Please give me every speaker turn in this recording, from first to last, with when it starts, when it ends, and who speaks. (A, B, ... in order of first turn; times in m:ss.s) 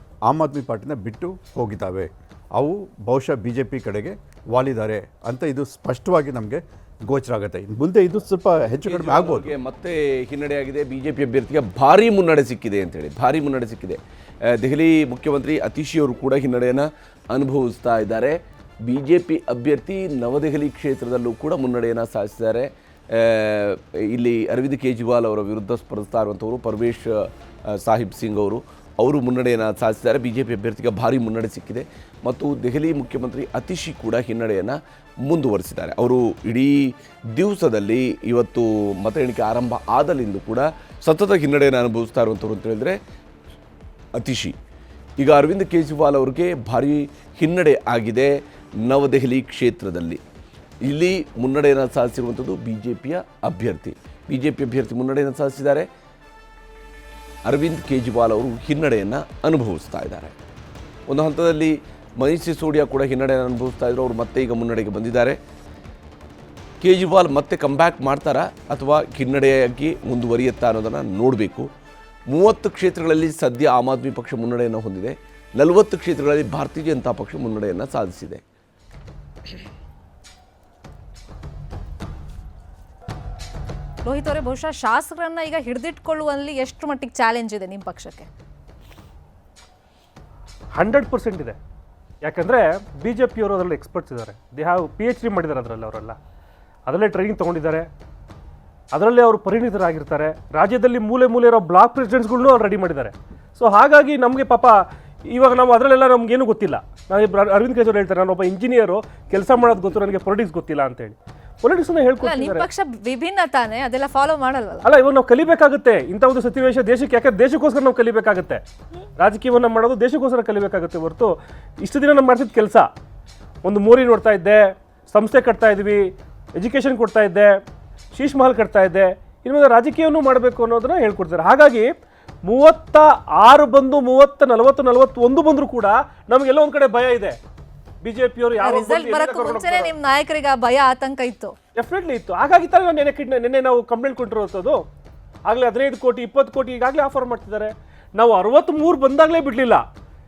0:00.3-0:09.5 A
0:08.8-0:43.0 B
0:44.2-0:44.6 B
0:45.2-0:50.2 B
0:50.8-0:55.9 B
0:57.4-1:00.3 B
1:01.1-1:05.4 B
1:06.8-1:11.7 B
1:12.3-1:18.4 B
1:24.0-1:28.3 C
1:30.7-1:31.6 D
1:32.2-1:36.2 D
1:36.9-1:37.9 D
1:38.9-1:52.7 D
1:52.2-1:54.9 C
1:54.8-1:58.6 D
1:59.2-2:02.9 D
2:03.6-2:06.0 D
2:06.6-2:07.5 D
2:08.1-2:11.9 D
2:12.5-2:17.4 D
2:18.0-2:19.9 D
2:18.6-2:21.6 C
2:21.8-2:24.8 D
2:25.5-2:29.8 D